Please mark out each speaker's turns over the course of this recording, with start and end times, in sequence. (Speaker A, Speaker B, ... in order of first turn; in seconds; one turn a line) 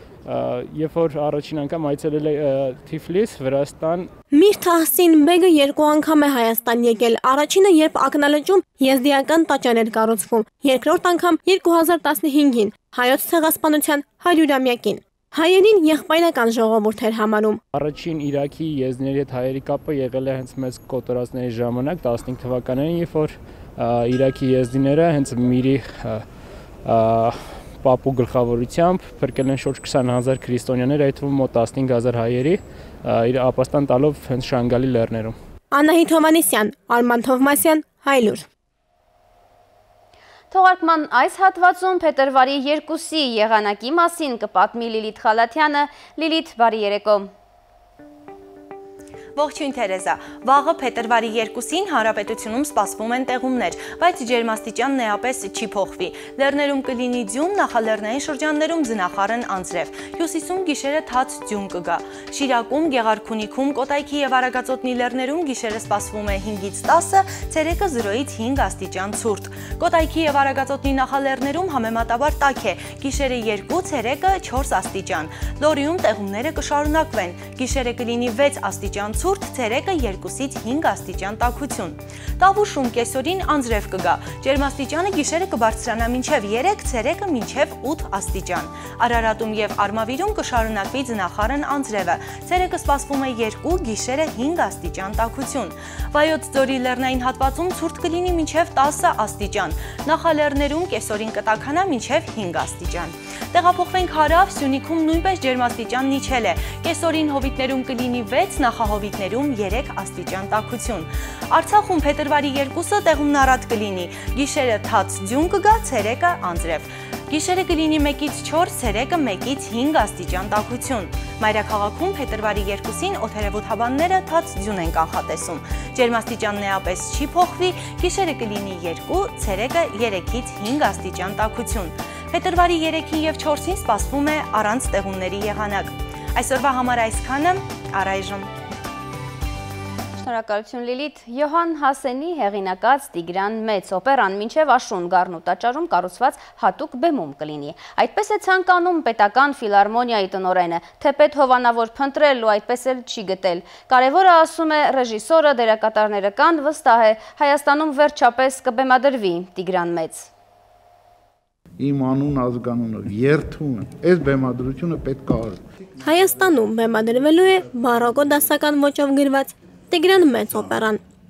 Speaker A: 0.2-4.1
Speaker B: 4.3-17.6
Speaker A: 17.7-26.2
Speaker A: 26.8-35.4
Speaker B: 35.7-38.4
Speaker C: 40.5-47.3
Speaker D: 49.3-138.5
Speaker C: 140.2-160.3
Speaker E: 161.8-165.6
Speaker B: 166.0-171.0